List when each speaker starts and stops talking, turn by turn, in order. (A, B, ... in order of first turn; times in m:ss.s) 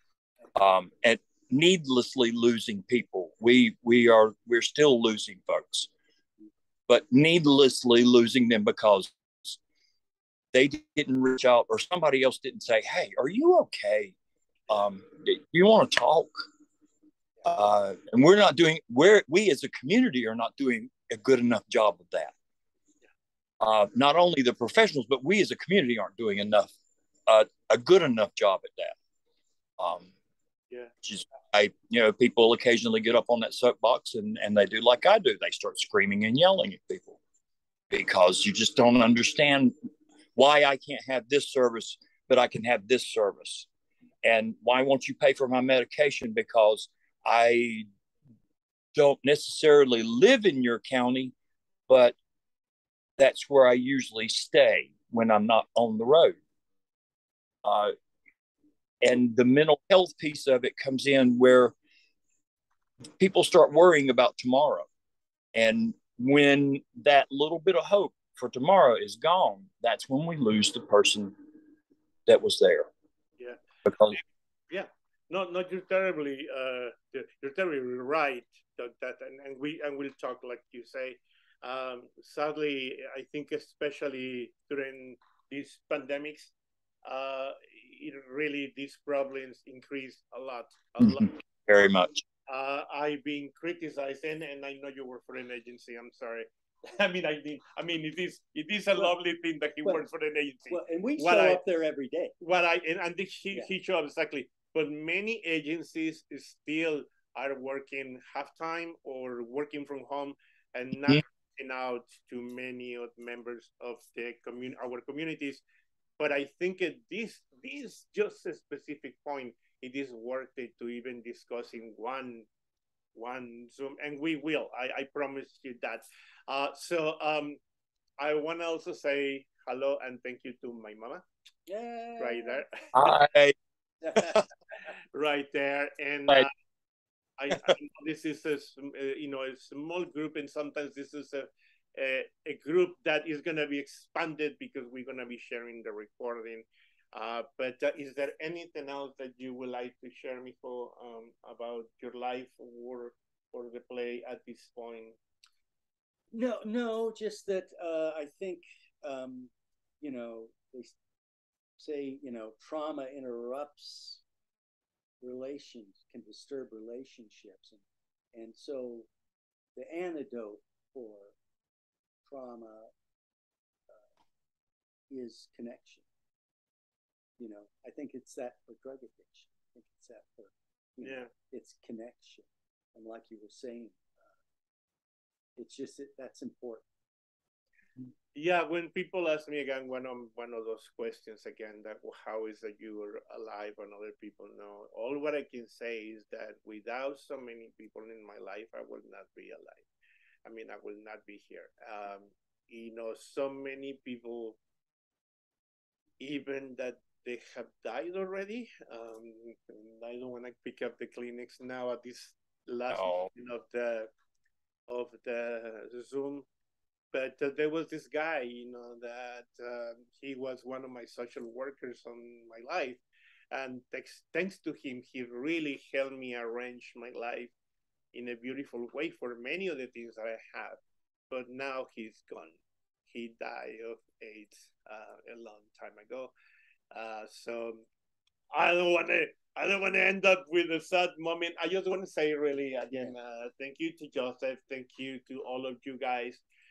0:00.6-0:05.9 A
0:06.9-0:09.6 A
0:10.5-0:14.1 A
0:14.7-0:16.4 A
0:17.5-0:22.3 A
0:23.6-0:26.7 A
0:27.3-0:29.0 A
0:29.8-0:30.1 A
0:31.0-0:37.2 A
0:37.9-0:39.7 A
0:40.4-0:43.7 A
0:44.2-0:47.9 A
0:49.0-0:51.3 A
0:51.9-0:52.2 A
0:53.2-0:56.4 A
0:57.6-0:57.9 A
0:59.0-1:01.7 A
1:03.2-1:04.9 A
1:05.6-1:11.3 A
1:12.3-1:12.9 A
1:13.9-1:14.2 A
1:14.1-1:26.5 B
1:27.0-1:31.3 B
1:31.0-1:32.2 A
1:32.5-1:41.6 B
1:40.7-1:42.3 C
1:42.4-1:55.6 B
1:56.2-2:02.5 B
2:03.2-2:07.6 B
2:08.2-2:11.2 B
2:11.7-2:12.6 C
2:12.2-2:12.6 B
2:12.9-2:13.6 A
2:14.0-2:14.4 C
2:15.1-2:16.5 B
2:17.4-2:35.2 B
2:36.3-2:41.0 C
2:41.8-2:44.2 C
2:45.2-2:47.8 C
2:48.3-2:49.1 C
2:49.8-2:51.4 C
2:52.2-2:52.9 C
2:55.1-2:56.0 C
2:57.4-3:04.4 C
3:01.0-3:01.3 B
3:05.6-3:06.8 C
3:08.3-3:19.9 B
3:20.5-3:24.6 B
3:26.2-3:34.1 B
3:32.9-3:33.3 A
3:34.9-3:36.5 B
3:37.1-3:43.0 B
3:43.5-3:47.5 B
3:48.1-3:50.8 B
3:51.3-3:52.6 B
3:53.1-3:56.3 B
3:56.9-3:57.8 B
3:58.5-4:06.4 B